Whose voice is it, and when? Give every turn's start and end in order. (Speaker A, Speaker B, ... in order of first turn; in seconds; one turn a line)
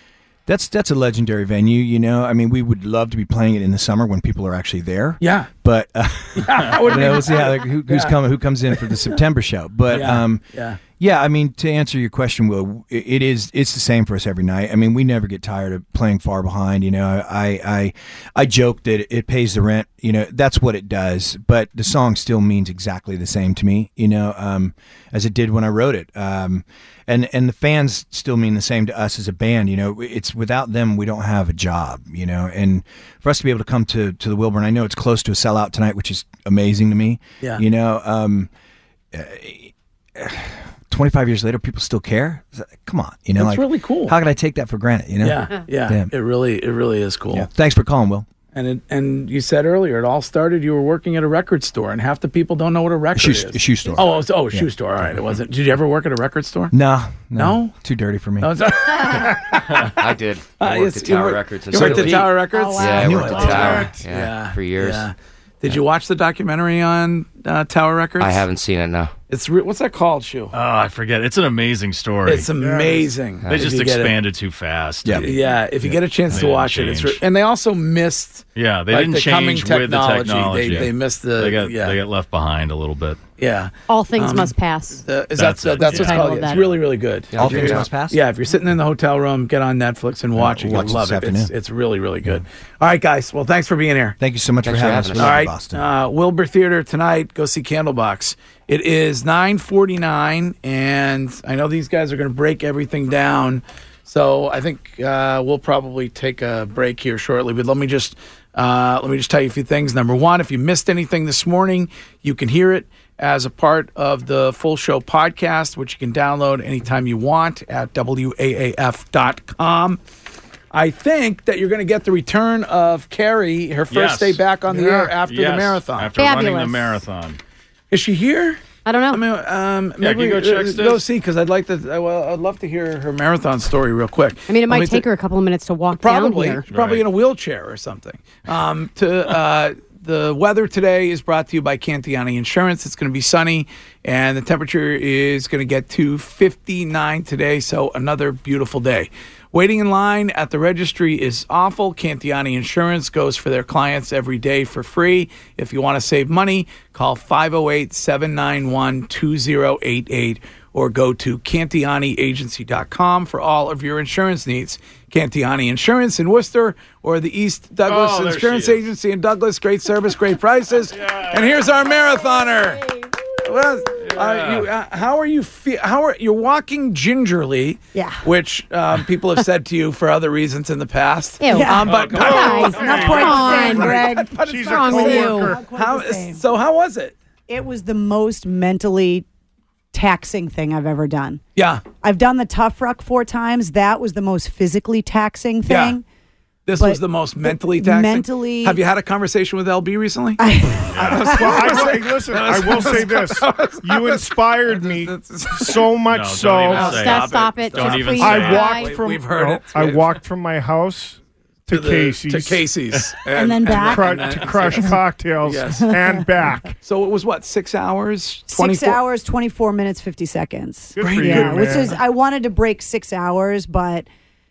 Speaker A: 0.5-38.5
Speaker B: 5.2-5.5
Speaker B: 6.4-8.2
Speaker B: 8.7-9.2
Speaker B: 9.9-10.8
Speaker A: 39.1-46.1
Speaker B: 43.4-44.2
Speaker B: 45.2-47.5
Speaker A: 47.3-48.3
Speaker B: 48.5-56.8
Speaker A: 53.1-55.2
Speaker A: 56.7-58.5
Speaker B: 57.4-57.8
Speaker B: 58.4-59.9
Speaker C: 59.9-65.1
Speaker B: 60.6-68.5
Speaker A: 61.7-62.4
Speaker D: 62.5-63.5
Speaker A: 62.9-63.9
Speaker E: 63.2-64.1
Speaker C: 68.2-69.1
Speaker B: 69.3-70.6
Speaker F: 70.5-72.5
Speaker B: 72.3-74.2
Speaker E: 72.5-73.2
Speaker F: 73.4-77.2
Speaker A: 75.0-75.3
Speaker B: 75.2-82.0
Speaker F: 78.6-83.2
Speaker B: 83.4-94.2
Speaker G: 83.9-85.0
Speaker F: 85.3-86.7
Speaker G: 85.8-86.7
Speaker C: 87.3-87.9
Speaker A: 87.3-88.2
Speaker A: 90.4-91.5
Speaker A: 94.2-95.9
Speaker C: 94.6-95.4
Speaker B: 95.2-120.0
Speaker B: 120.7-126.1
Speaker F: 123.9-124.5
Speaker E: 124.7-125.1
Speaker F: 125.1-127.4
Speaker G: 126.2-126.9
Speaker B: 127.9-135.1
Speaker G: 128.9-129.2
Speaker F: 130.0-131.1
Speaker G: 134.5-136.6
Speaker B: 136.0-187.2
Speaker F: 136.7-137.1
Speaker F: 167.8-168.9
Speaker F: 170.9-171.9
Speaker F: 174.0-174.7
Speaker D: 177.9-178.3
Speaker G: 181.4-183.9
Speaker D: 181.4-186.5
Speaker F: 181.8-183.3
Speaker E: 182.1-185.6
Speaker G: 184.7-185.5
Speaker D: 187.5-189.2
Speaker D: 189.9-191.4
Speaker B: 191.6-191.8
Speaker D: 191.9-196.0
Speaker B: 195.7-196.0
Speaker B: 196.7-206.0
Speaker D: 196.8-198.8
Speaker D: 200.4-202.0
Speaker F: 200.9-201.3
Speaker E: 201.2-207.2
Speaker F: 206.1-208.7
Speaker G: 206.7-208.9
Speaker B: 206.8-210.1
Speaker E: 208.2-212.7
Speaker B: 211.7-215.9
Speaker D: 213.3-214.4
Speaker E: 213.7-216.8
Speaker D: 215.9-216.2
Speaker B: 216.8-219.0
Speaker D: 218.5-224.1
Speaker E: 220.9-222.0
Speaker B: 221.0-222.0